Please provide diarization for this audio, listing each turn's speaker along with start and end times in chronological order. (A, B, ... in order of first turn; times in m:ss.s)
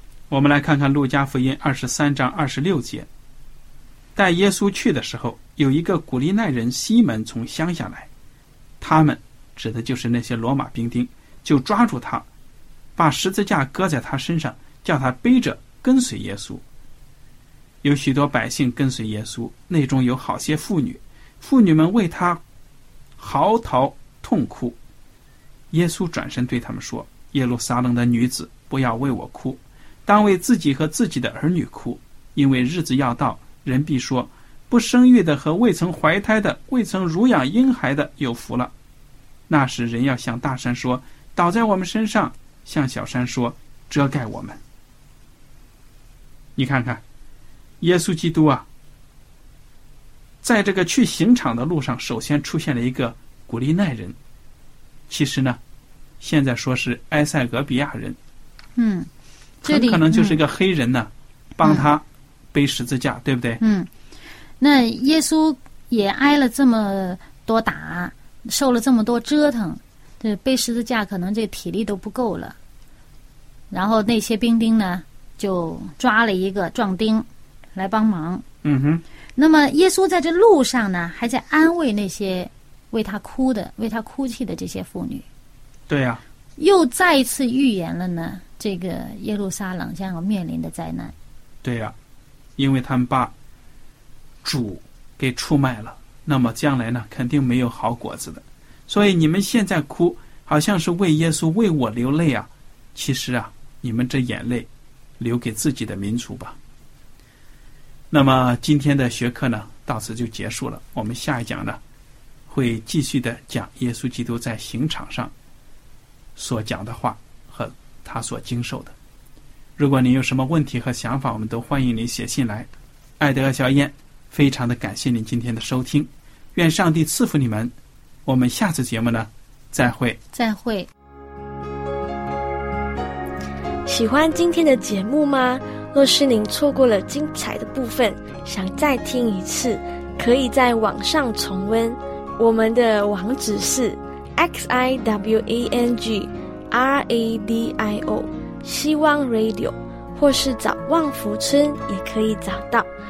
0:00.3-0:03.1 A
0:04.2-0:08.1 A
0:08.8-0:12.3 A
0:13.0-0:16.6 A
0:17.8-0:22.4 A
0:23.2-0:24.8 A
0:25.7-0:38.7 A
0:39.5-0:44.6 A
0:46.6-0:47.0 A
0:47.8-0:48.7 A
0:50.4-0:54.2 A
0:55.1-0:55.6 A
0:56.2-0:58.2 A
0:58.8-0:59.1 B
0:59.6-1:03.6 A
0:59.6-1:00.4 B
1:03.6-1:03.9 B
1:04.6-1:12.6 B
1:13.7-1:18.4 B
1:18.6-1:19.0 A
1:19.4-1:25.2 B
1:25.9-1:26.2 A
1:26.6-1:31.1 B
1:31.6-1:32.0 A
1:32.6-1:33.3 A
1:34.4-1:44.7 A
1:45.2-1:46.6 A
1:48.1-1:51.8 A
1:52.5-1:55.3 A
1:56.4-1:59.0 A
1:59.8-2:02.7 A
2:03.2-2:07.7 A
2:08.2-2:10.2 A
2:10.3-2:10.9 B
2:13.9-2:32.9 C